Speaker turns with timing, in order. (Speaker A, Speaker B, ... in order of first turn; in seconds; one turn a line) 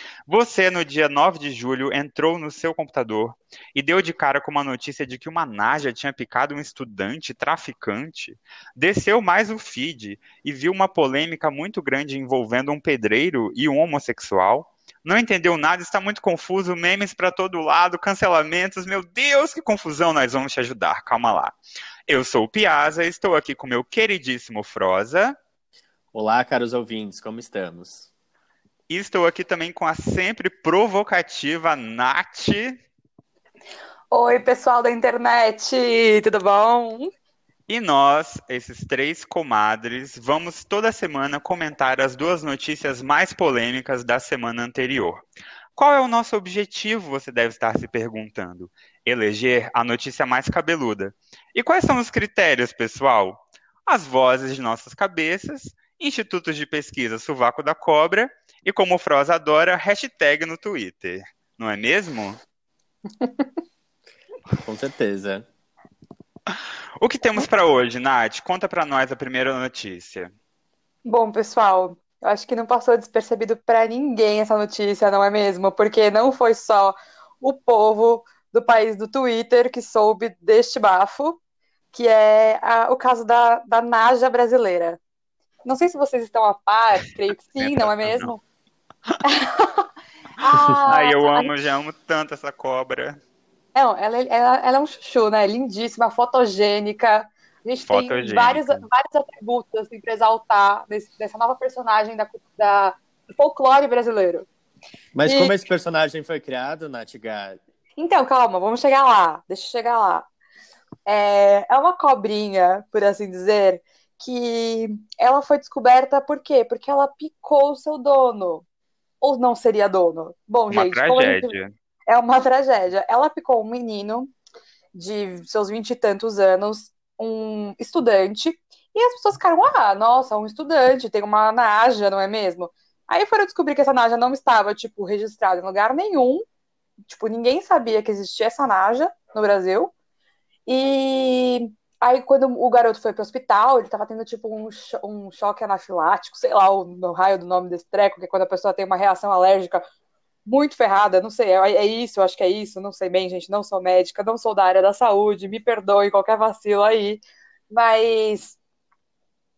Speaker A: 0.3-21.6
Speaker A: 22.1-25.4
Speaker B: 26.1-28.1
Speaker A: 28.9-32.8
Speaker C: 34.1-37.1
Speaker A: 37.7-45.2
Speaker A: 45.8-62.4
Speaker C: 63.2-63.5
Speaker B: 64.6-65.5
Speaker A: 67.0-70.3
Speaker C: 71.1-81.4
Speaker C: 81.9-85.0
Speaker C: 85.7-88.4
Speaker A: 87.6-88.3
Speaker C: 89.2-91.5
Speaker A: 90.9-93.2
Speaker C: 93.8-104.5
Speaker A: 97.9-98.9
Speaker B: 105.1-107.6
Speaker C: 105.2-105.5
Speaker C: 108.0-110.3
Speaker C: 111.1-118.7
Speaker C: 119.2-121.5
Speaker A: 120.7-121.7
Speaker C: 122.1-124.3
Speaker C: 124.9-136.4
Speaker C: 137.1-139.9
Speaker C: 140.7-149.8
Speaker C: 150.4-158.6